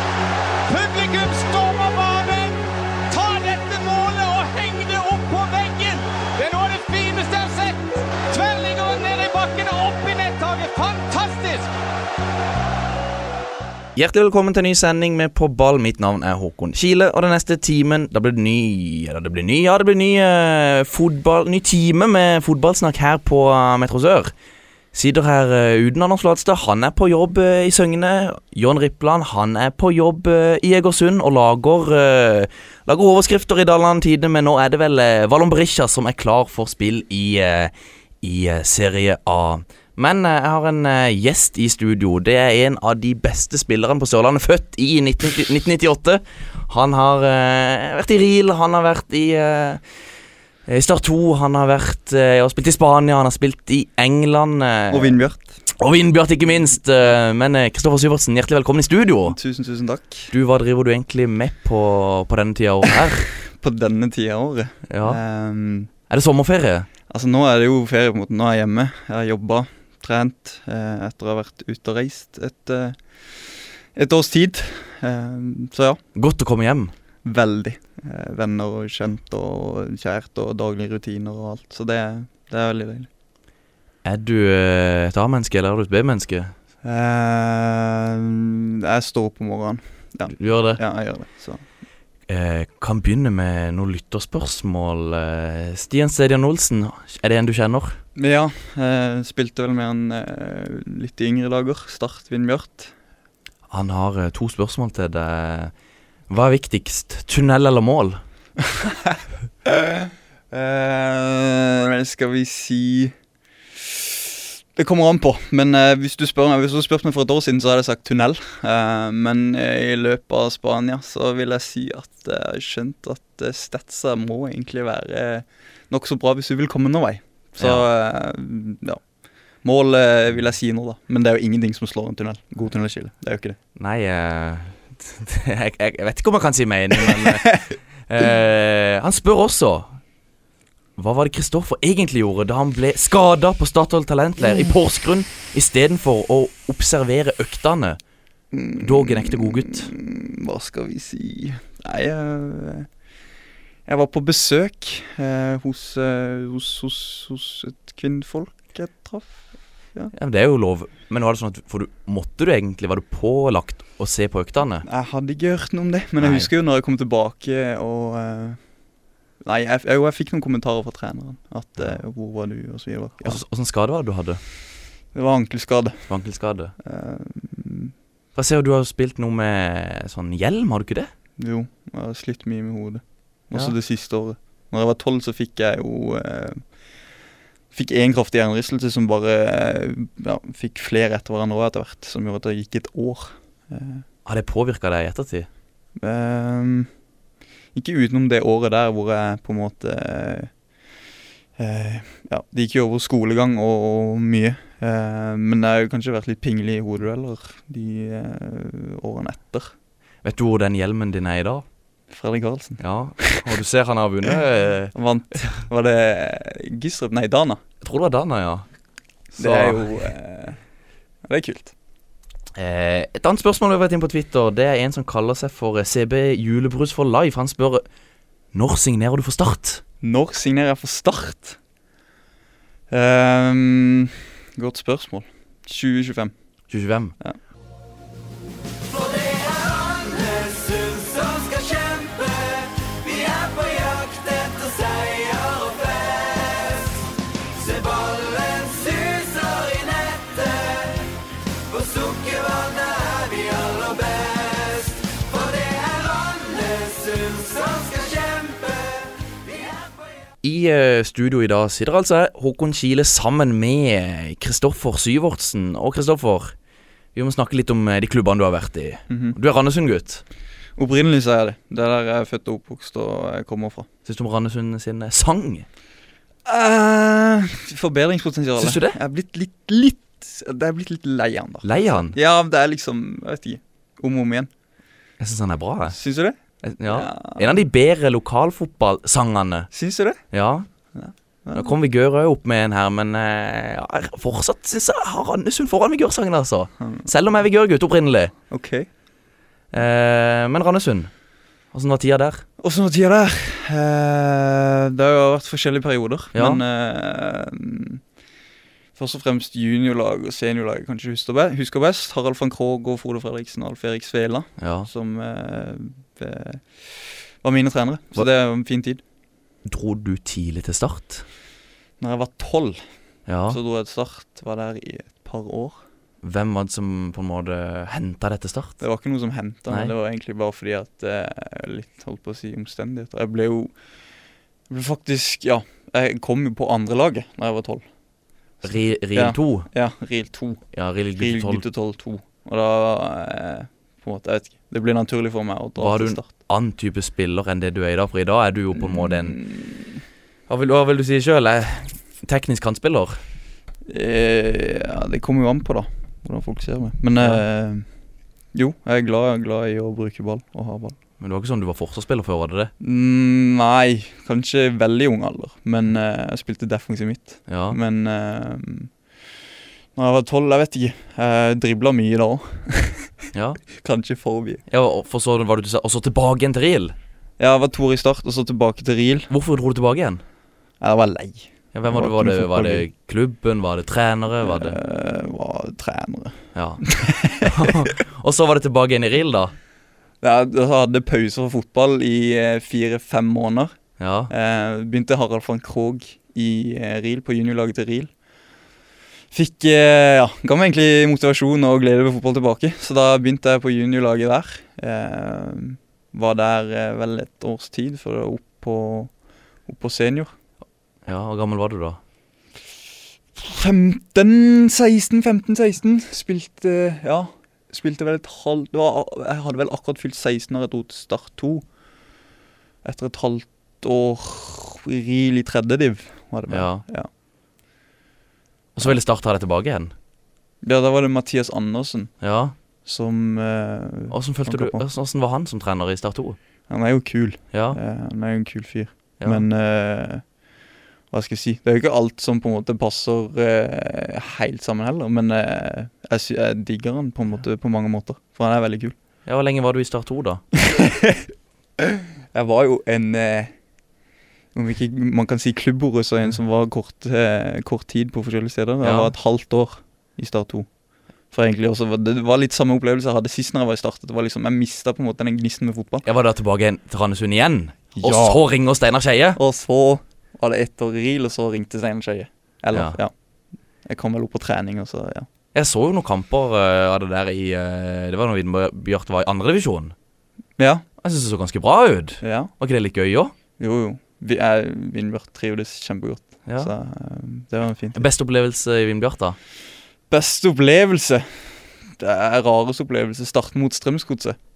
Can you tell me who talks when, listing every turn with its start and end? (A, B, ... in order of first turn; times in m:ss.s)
0:00.7-0:11.7 A
0:13.9-0:24.3 B
0:24.9-0:49.8 B
0:50.6-0:55.1 B
0:54.9-0:55.6 C
0:55.8-0:59.4 B
0:59.3-1:00.3 C
1:00.3-1:03.3 B
1:03.5-1:05.9 C
1:04.9-1:05.2 B
1:06.1-1:06.9 B
1:07.1-1:16.0 C
1:16.1-1:16.9 B
1:17.2-1:23.1 C
1:24.0-1:26.5 B
1:26.8-1:31.6 C
1:30.3-1:30.8 B
1:32.3-1:38.0 B
1:38.2-1:42.9 C
1:43.7-1:45.7 B
1:46.3-1:48.2 B
1:48.8-1:53.1 C
1:54.8-2:09.0 C
2:07.6-2:07.9 B
2:09.6-2:13.6 C
2:13.8-2:19.9 B
2:17.0-2:17.7 C
2:21.0-2:28.0 B
2:24.4-2:24.7 C
2:28.5-2:32.9 C
2:28.8-2:29.9 B
2:33.8-2:40.1 C
2:40.1-2:44.8 B
2:44.8-2:48.6 C
2:46.2-2:46.5 B
2:49.4-2:53.4 C
2:53.2-2:54.4 B
2:55.1-2:56.1 C
2:56.1-2:56.7 B
2:56.8-2:57.9 C
2:58.3-3:01.1 B
3:01.4-3:06.6 C
3:07.7-3:14.0 C
3:14.2-3:15.5 B
3:16.0-3:16.9 C
3:17.7-3:20.5 C
3:21.6-3:29.7 C
3:30.2-3:31.6 B
3:32.1-3:33.5 C
3:32.8-3:34.9 B
3:34.9-3:37.6 C
3:37.8-3:38.6 B
3:39.3-3:40.1 B
3:39.4-3:40.6 C
3:41.2-3:41.7 C
3:42.5-3:47.8 B
3:48.5-3:49.8 B
3:50.0-3:51.6 C
3:52.9-3:56.3 C
3:56.7-3:57.1 B
4:20.4-4:26.5 B
4:27.1-4:30.2 B
4:29.1-4:29.4 C
4:30.8-4:33.8 C
4:34.0-4:35.6 B
4:36.4-4:44.5 C
4:38.6-4:39.0 B
4:41.6-4:42.2 B
4:45.2-4:46.0 B
4:45.9-4:47.5 C
4:46.6-4:49.7 B
4:49.7-4:50.2 C
4:50.3-4:50.7 B
4:50.9-4:51.7 C
4:51.5-4:58.3 B
4:56.8-4:57.1 C
4:58.5-4:58.9 C
4:59.7-5:01.1 B
5:01.7-5:02.4 B
5:02.6-5:08.0 C
5:06.3-5:06.6 B
5:09.0-5:19.0 C
5:14.6-5:14.9 B
5:19.6-5:21.2 B
5:22.0-5:22.8 C
5:23.3-5:23.6 B
5:23.5-5:25.8 C
5:26.2-5:28.8 B
5:28.8-5:33.7 C
5:29.7-5:29.9 B
5:34.7-5:37.8 C
5:38.6-5:46.3 C
5:38.6-5:39.7 B
5:40.7-5:41.6 B
5:45.8-5:49.4 B
5:48.8-5:50.0 C
5:50.5-5:53.2 B
5:53.8-5:57.8 C
5:58.5-6:01.0 C
6:01.2-6:02.7 B
6:02.8-6:08.9 C
6:07.5-6:07.8 B
6:10.0-6:13.1 C
6:13.3-6:13.6 B
6:13.8-6:14.6 C
6:14.7-6:16.9 B
6:17.4-6:19.3 C
6:19.3-6:20.2 B
6:20.8-6:22.8 C
6:21.7-6:24.8 B
6:24.4-6:27.9 C
6:26.5-6:29.5 B
6:30.2-6:33.7 C
6:34.0-6:34.3 B
6:34.3-6:38.1 C
6:39.3-6:49.1 C
6:49.6-6:50.3 C
6:51.0-6:52.0 B
6:53.4-7:01.6 C
7:02.8-7:07.1 C
7:06.5-7:06.8 B
7:08.8-7:09.9 B
7:10.6-7:12.1 C
7:12.2-7:12.5 B
7:12.8-7:14.8 C
7:14.1-7:16.4 B
7:16.7-7:20.3 C
7:17.5-7:17.8 B
7:19.2-7:19.4 B
7:21.1-7:28.9 C
7:29.2-7:30.4 B
7:30.6-7:31.2 C
7:31.9-7:33.5 C
7:34.5-7:40.7 C
7:38.8-7:39.1 B
7:41.3-7:46.0 C
7:46.0-7:49.4 B
7:47.9-7:48.4 C
7:49.4-7:53.1 C
7:52.7-7:53.0 B
7:53.8-7:55.3 C
7:55.5-7:59.9 B
8:00.6-8:00.8 C
8:01.0-8:03.3 B
8:02.2-8:02.5 C
8:03.6-8:08.0 C
8:06.4-8:06.7 B
8:07.9-8:09.4 B
8:10.1-8:11.5 C
8:12.0-8:14.4 C